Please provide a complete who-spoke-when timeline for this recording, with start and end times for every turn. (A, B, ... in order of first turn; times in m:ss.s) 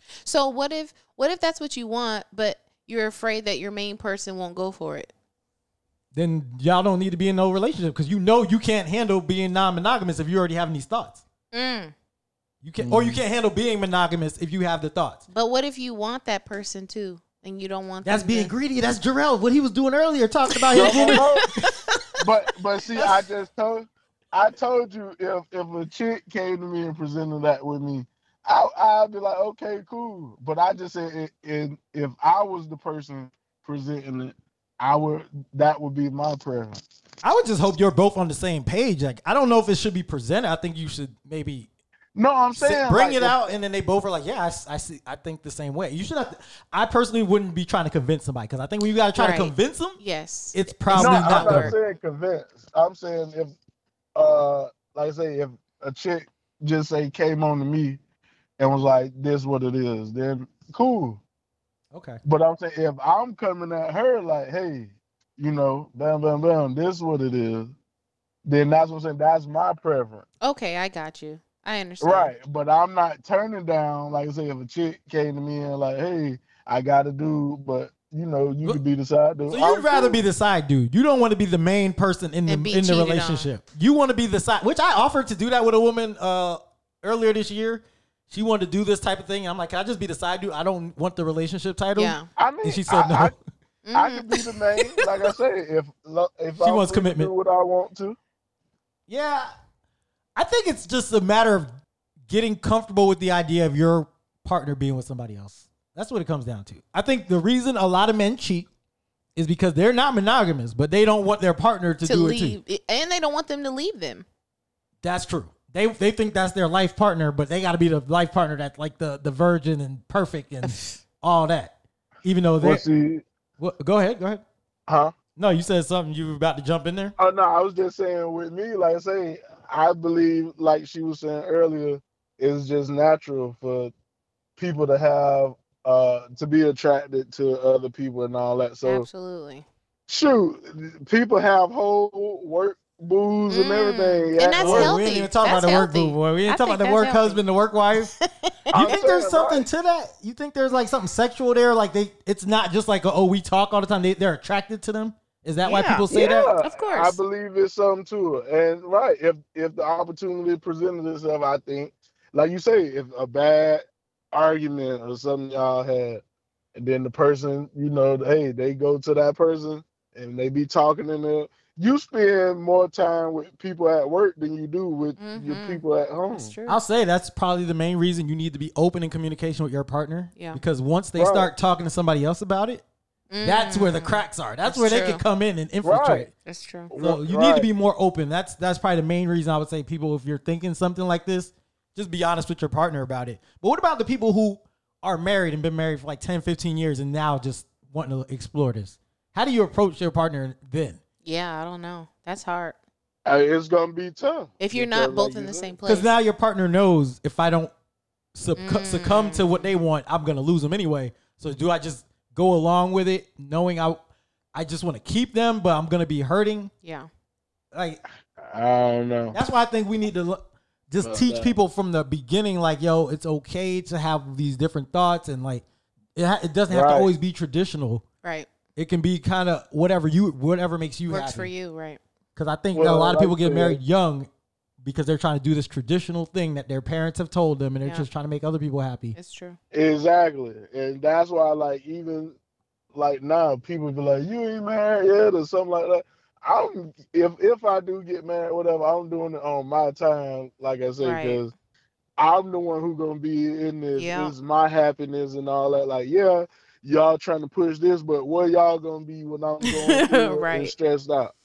0:00.2-0:05.1 A
0:06.1-0:11.2 B
0:11.5-0:11.9 A
0:12.6-0:15.2 B
0:12.8-0:13.2 C
0:15.3-0:18.5 A
0:18.0-0:21.6 B
0:20.6-0:21.8 A
0:20.7-0:21.5 C
0:22.2-0:36.8 C
0:37.2-0:41.7 B
0:42.2-0:43.4 C
0:42.6-0:50.0 B
0:49.2-0:51.8 A
0:50.5-0:51.7 B
0:50.9-0:53.6 C
0:54.2-0:58.0 C
0:58.6-1:01.2 C
1:01.9-1:02.2 B
1:02.2-1:07.7 C
1:08.4-1:10.2 C
1:10.4-1:12.3 A
1:12.0-1:20.2 C
1:19.5-1:33.4 B
1:22.5-1:23.5 A
1:32.0-1:32.3 A
1:32.4-1:33.3 C
1:33.8-1:35.0 A
1:33.9-1:38.2 C
1:36.6-1:37.3 B
1:39.1-1:39.5 B
1:40.4-1:41.7 B
1:42.3-1:48.7 B
1:49.4-1:52.6 B
1:52.0-1:54.2 A
1:55.0-2:01.7 B
2:00.6-2:01.0 A
2:02.2-2:02.8 B
2:02.6-2:03.2 C
2:03.6-2:04.4 B
2:04.9-2:05.1 C
2:05.4-2:07.2 B
2:07.2-2:13.9 C
2:14.6-2:19.1 C
2:18.8-2:19.6 A
2:20.1-2:25.0 C
2:23.5-2:27.4 A
2:24.6-2:28.1 B
2:28.0-2:29.0 A
2:28.7-2:29.7 C
2:28.7-2:36.5 B
2:35.6-2:36.1 A
2:36.1-2:46.2 C
2:36.6-2:37.2 A
2:46.8-2:56.5 C
2:55.2-2:56.8 A
2:56.7-3:02.8 B
3:01.2-3:01.5 C
3:03.3-3:05.2 A
3:03.4-3:06.3 B
3:05.8-3:06.3 C
3:06.4-3:06.9 A
3:06.9-3:07.7 C
3:07.0-3:21.0 B
3:21.2-3:22.8 A
3:23.3-3:25.8 C
3:24.6-3:26.1 A
3:25.9-3:27.7 B
3:28.4-3:34.0 B
3:28.6-3:29.7 A
3:34.5-3:36.7 B
3:36.8-3:37.1 A
3:37.7-3:38.0 B
3:38.4-3:39.4 C
3:39.3-3:45.6 B
3:41.0-3:41.5 C
3:46.2-3:48.0 B
3:46.7-3:47.1 C
3:48.8-3:51.5 B
3:51.1-3:52.0 A
3:52.4-3:54.3 B
3:52.7-3:53.8 C
3:54.8-3:59.2 B
3:59.2-3:59.6 A
3:59.7-4:02.4 C
4:02.9-4:11.5 C
4:11.0-4:11.4 A
4:12.2-4:21.3 C
4:14.0-4:14.3 A
4:19.6-4:20.7 A